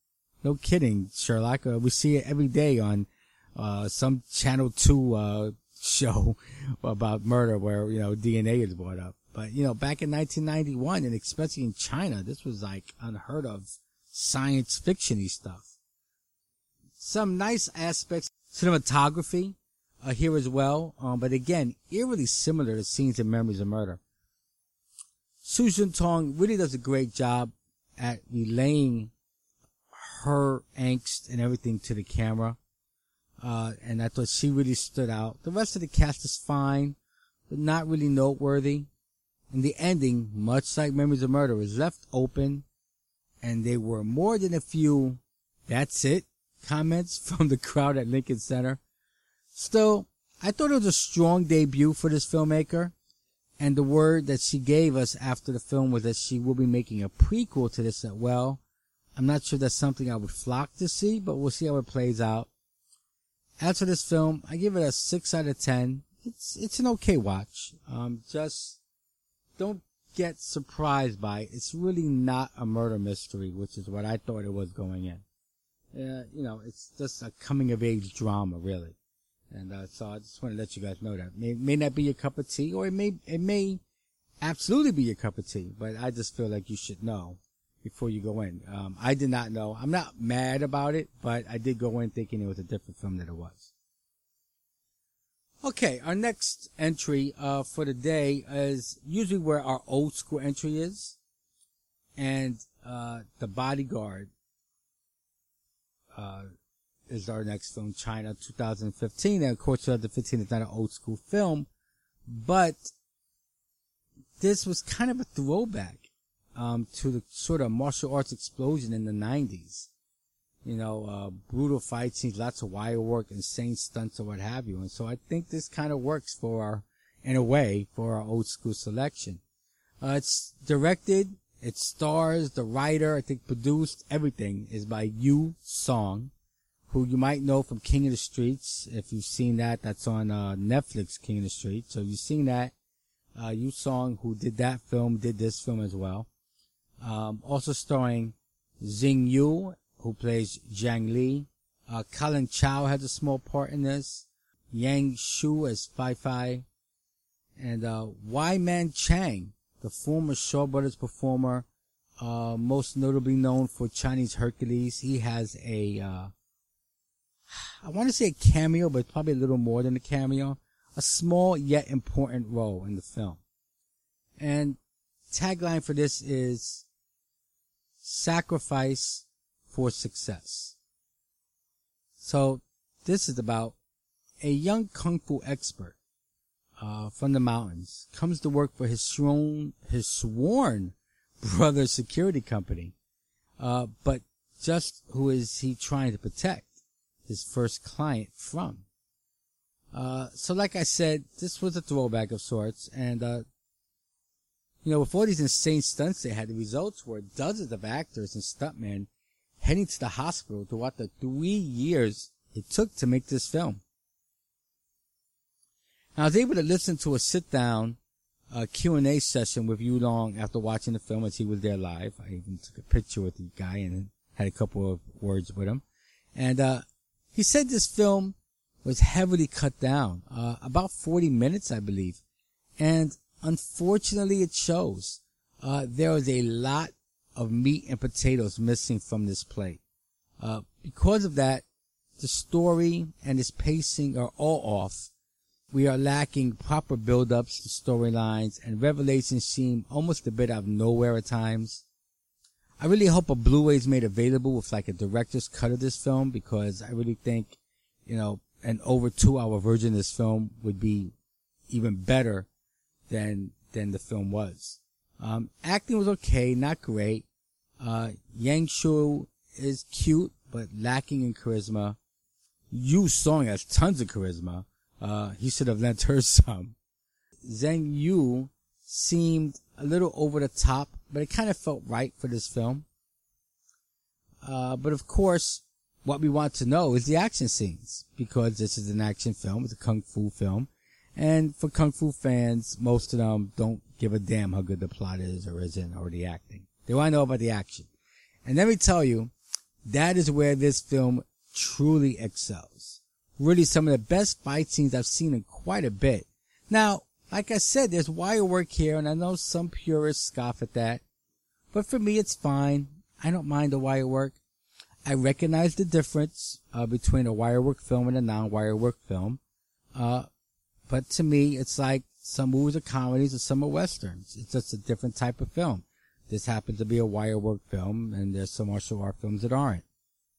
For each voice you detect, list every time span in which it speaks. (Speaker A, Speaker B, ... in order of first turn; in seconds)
Speaker A: 0.4-15.7, 17.0-24.0, 25.4-29.1, 29.9-32.6, 33.4-37.0, 37.5-38.9, 39.5-42.6, 43.4-48.8, 49.5-52.9, 53.6-58.6, 59.2-62.5, 63.6-68.8, 69.6-75.2, 75.9-79.0, 79.5-83.8, 84.4-93.7, 95.6-101.2, 102.2-104.3, 106.2-106.5, 107.1-111.7, 112.3-112.9, 114.4-119.9, 120.7-129.4, 130.0-136.3, 136.9-142.7, 143.3-146.3, 147.0-156.7, 157.6-161.7, 162.2-166.3, 167.5-173.4, 174.4-174.8, 175.3-176.8, 178.0-180.8, 182.2-183.8, 184.4-186.0, 186.8-192.9, 193.6-196.7, 197.3-198.8, 199.9-203.5, 204.8-209.1, 209.6-213.8, 216.2-218.0, 218.5-225.8, 226.3-232.2, 232.8-239.8, 240.4-241.6, 242.2-245.1, 245.7-251.8, 252.8-261.1, 261.7-262.5, 263.1-267.3, 267.8-272.0, 272.7-276.8, 277.4-282.9, 284.4-297.9, 298.4-299.3, 299.9-311.0, 311.7-314.4, 315.1-319.4, 319.9-320.3, 320.9-329.8